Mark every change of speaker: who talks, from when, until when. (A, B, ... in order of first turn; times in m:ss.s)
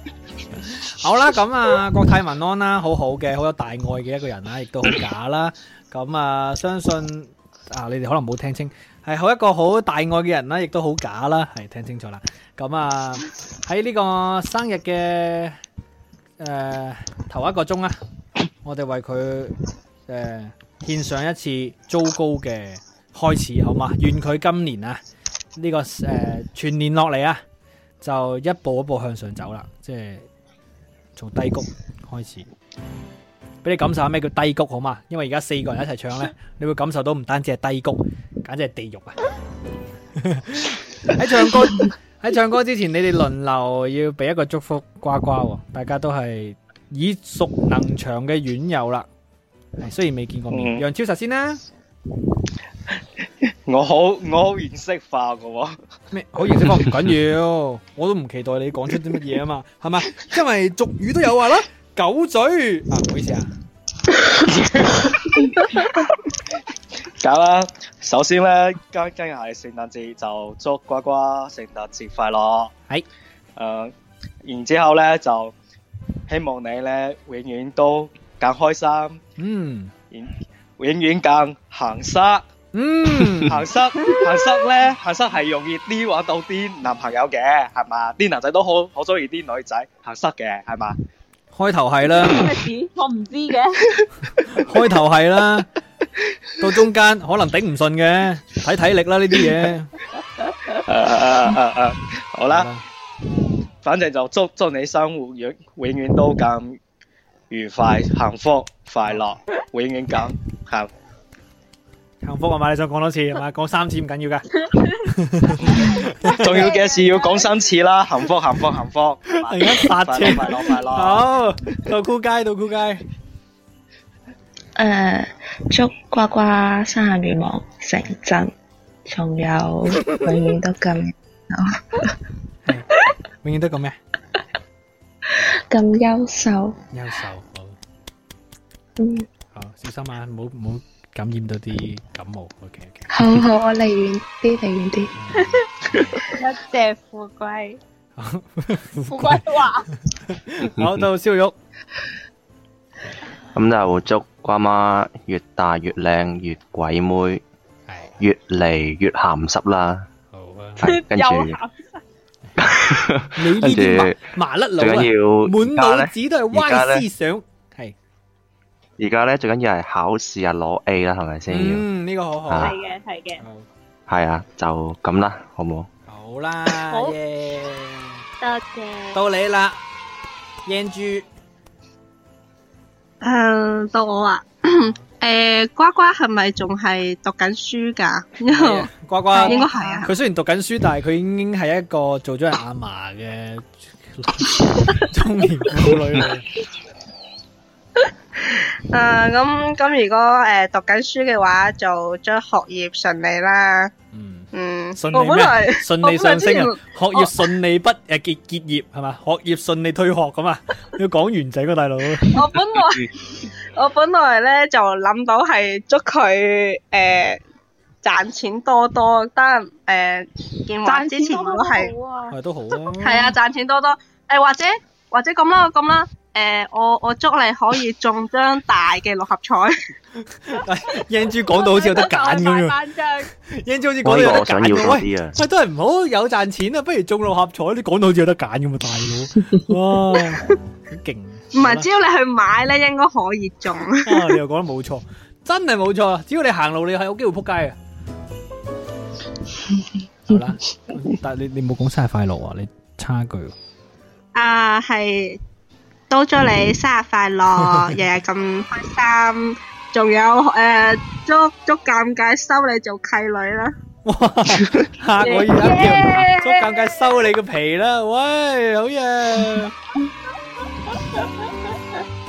0:00.7-0:15.6 A
0:16.4-0:18.0 A
0:18.6-0:19.6 A
0:20.1-0:25.0 A
0:25.6-0:27.4 A
0:28.0-0:30.3 A
0:31.2-0:32.5 A
0:33.6-0:39.2 A
0:40.2-0:49.1 A
0:49.8-0:51.6 A
0:50.5-0:50.8 B
0:53.7-0:55.8 B
0:56.1-1:03.5 A
1:04.2-1:05.4 B
1:07.2-1:12.7 B
1:13.6-1:13.9 B
1:14.4-1:15.5 B
1:16.3-1:19.2 B
1:19.4-1:19.9 A
1:20.1-1:22.4 B
1:22.7-1:23.6 A
1:23.4-1:31.0 B
1:31.5-1:32.5 A
1:32.2-1:33.8 C
1:34.5-1:35.7 A
1:36.6-1:39.9 A
1:40.8-1:42.7 B
1:42.5-1:42.8 A
1:43.8-1:46.8 B
1:47.5-1:50.9 B
1:52.2-1:56.6 A
1:55.7-2:01.2 B
1:55.7-1:57.6 C
1:59.4-2:03.0 A
2:04.8-2:08.5 D
2:09.1-2:12.3 D
2:13.4-2:14.0 A
2:15.3-2:16.8 D
2:16.9-2:17.8 A
2:19.0-2:19.3 D
2:19.6-2:23.1 A
2:23.1-2:25.2 D
2:25.2-2:26.2 A
2:25.4-2:25.6 C
2:26.2-2:27.8 C
2:28.2-2:29.5 A
2:29.1-2:29.9 C
2:30.1-2:31.6 A
2:33.6-2:37.4 E
2:37.9-2:38.2 A
2:38.2-2:40.1 E
2:40.3-2:41.0 A
2:40.8-2:42.0 C
2:40.9-2:41.6 E
2:42.6-2:44.2 E
2:43.4-2:48.0 A
2:44.8-2:47.1 E
2:49.0-2:51.8 E
2:51.5-2:52.7 A
2:52.5-2:52.8 E
2:52.6-2:53.4 C
2:53.4-2:53.7 A
2:54.1-2:55.9 E
2:56.1-2:58.2 A
2:56.8-2:57.2 C
2:58.4-2:59.2 C
2:59.1-2:59.8 A
3:00.6-3:01.3 A
3:03.2-3:10.1 F
3:04.7-3:05.0 A
3:08.5-3:16.5 A
3:09.3-3:10.1 C
3:18.5-3:23.9 F
3:24.1-3:32.5 A
3:24.5-3:27.5 F
3:32.3-3:37.4 F
3:38.0-3:41.9 F
3:40.8-3:42.4 C
3:42.3-3:43.4 A
3:43.0-3:49.8 F
3:50.3-3:52.8 A
3:51.4-3:53.3 C
3:53.4-4:01.9 A
3:54.0-3:55.4 E
4:01.5-4:04.4 F
4:04.0-4:07.8 A
4:10.3-4:13.6 A
4:14.4-4:15.4 F
4:16.1-4:23.8 F
4:17.6-4:18.0 A
4:24.0-4:29.7 A
4:25.2-4:26.6 F
4:25.3-4:26.3 C